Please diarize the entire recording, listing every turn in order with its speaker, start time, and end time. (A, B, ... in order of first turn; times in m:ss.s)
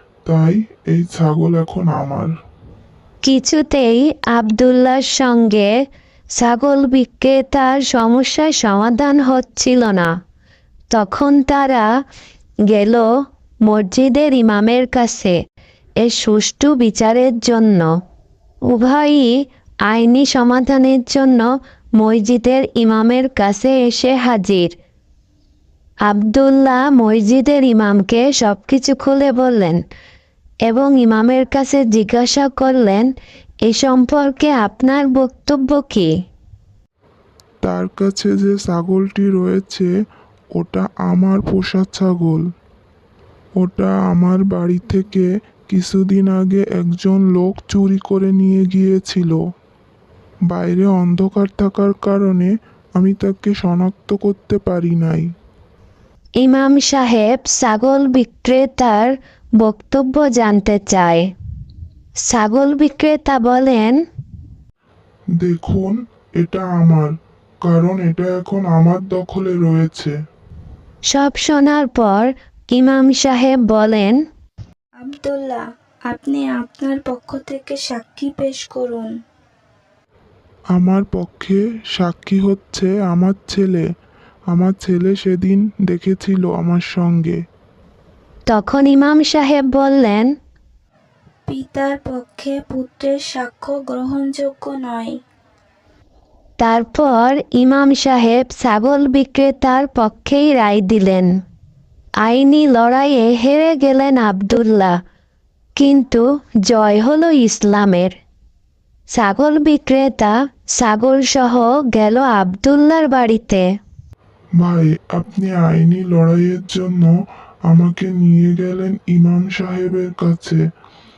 0:00.3-0:02.3 A
0:03.2-0:05.7 B
0:06.4-0:10.1 B
0:10.9-0:11.9 B
0:12.7-0:13.1 B
0:13.7-0:15.4 B
0:16.0-0:17.9 B
0:18.7-0:19.3 B
0:19.9-0:24.7 B
0:26.1-0:29.8 B
0:30.7-0:33.1 B
0:33.7-0:36.1 B
0:37.6-0:39.9 A
0:40.6-0:42.4 A
0:43.6-0:49.4 A
0:50.5-0:55.3 A
0:56.4-1:01.3 B
1:02.3-1:04.0 B
1:05.4-1:07.1 A
1:07.7-1:10.1 A
1:11.1-1:14.2 B
1:15.0-1:19.1 C
1:20.7-1:23.8 A
1:24.5-1:27.4 A
1:28.5-1:30.3 B
1:31.5-1:35.1 C
1:36.6-1:41.3 B
1:42.2-1:45.0 B
1:45.8-1:48.2 B
1:49.2-1:53.6 B
1:54.6-1:57.1 A
1:57.7-2:00.6 A